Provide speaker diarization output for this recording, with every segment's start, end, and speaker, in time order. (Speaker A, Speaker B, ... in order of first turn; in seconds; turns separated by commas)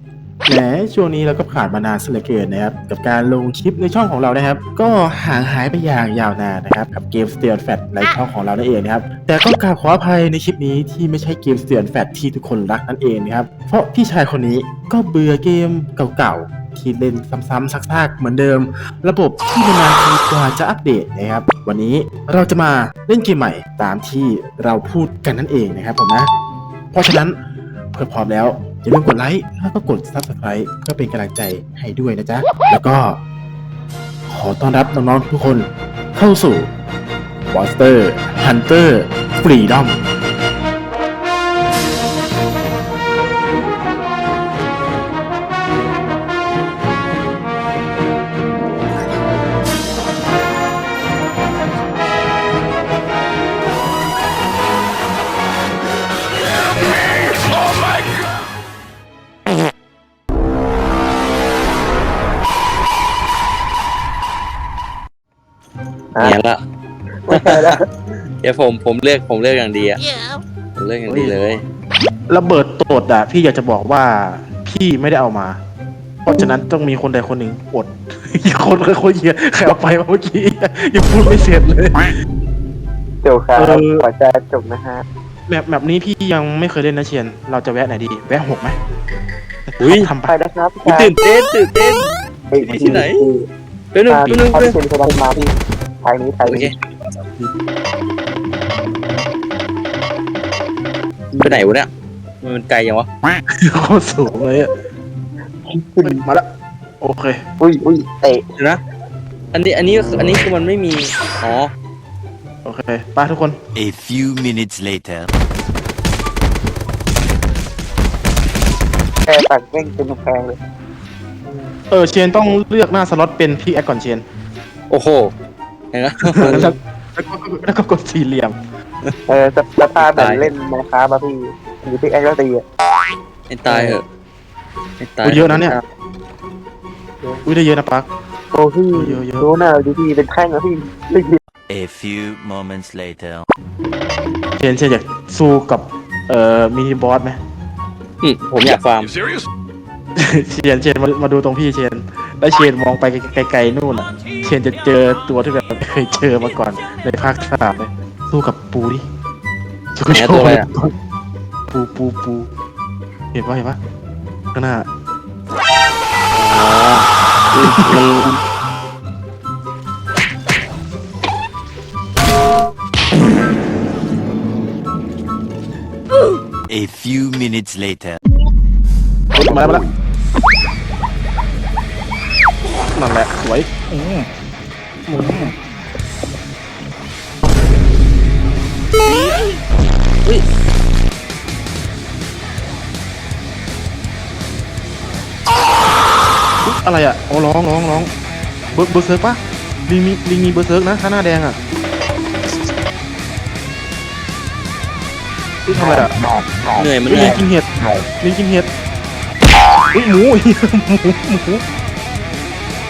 Speaker A: 0.5-26.3, Speaker A: 26.9-27.4, Speaker A: 27.9-33.2, Speaker A: 34.3-36.7, Speaker A: 37.5-40.0, Speaker B: 66.2-66.6, Speaker C: 67.3-67.8, Speaker B: 67.3-67.7, Speaker B: 68.4-70.0, Speaker B: 70.8-71.6, Speaker A: 71.1-71.6, Speaker A: 72.3-75.6, Speaker A: 76.2-82.1, Speaker C: 83.2-85.0, Speaker A: 83.6-84.0, Speaker A: 85.5-88.8, Speaker A: 89.7-90.3, Speaker B: 89.8-90.1, Speaker C: 90.2-91.2, Speaker B: 90.8-93.3, Speaker C: 92.5-93.5, Speaker B: 93.9-94.8, Speaker C: 94.1-96.7, Speaker B: 96.5-96.7, Speaker A: 97.2-97.5, Speaker C: 101.3-101.7, Speaker B: 101.4-101.9, Speaker B: 102.4-103.1, Speaker A: 103.7-104.7, Speaker C: 105.7-106.2, Speaker A: 106.0-106.5, Speaker A: 107.0-107.4, Speaker C: 107.6-108.5, Speaker B: 109.5-111.7, Speaker A: 112.6-113.6, Speaker D: 113.8-115.3, Speaker C: 119.3-120.6, Speaker A: 121.9-124.2, Speaker B: 124.9-125.3, Speaker B: 125.9-126.7, Speaker A: 126.4-128.6, Speaker C: 129.3-132.6, Speaker B: 130.0-130.5, Speaker B: 133.5-134.0, Speaker A: 133.7-134.0, Speaker B: 135.0-135.8, Speaker A: 135.2-135.8, Speaker A: 137.4-138.1, Speaker C: 138.5-141.4, Speaker A: 138.9-139.5, Speaker D: 141.7-143.5, Speaker A: 144.6-147.4, Speaker B: 148.2-149.2, Speaker A: 150.2-159.1, Speaker A: 160.0-160.9, Speaker B: 160.1-160.7, Speaker A: 161.7-162.5, Speaker A: 163.3-163.8, Speaker A: 164.5-164.9, Speaker B: 166.3-168.4, Speaker A: 167.7-168.0, Speaker D: 176.7-178.2, Speaker A: 179.4-179.9, Speaker A: 182.9-183.7, Speaker A: 196.6-198.1, Speaker A: 198.7-201.6, Speaker A: 205.7-206.2, Speaker B: 206.8-207.4, Speaker A: 207.1-208.7, Speaker A: 209.9-211.6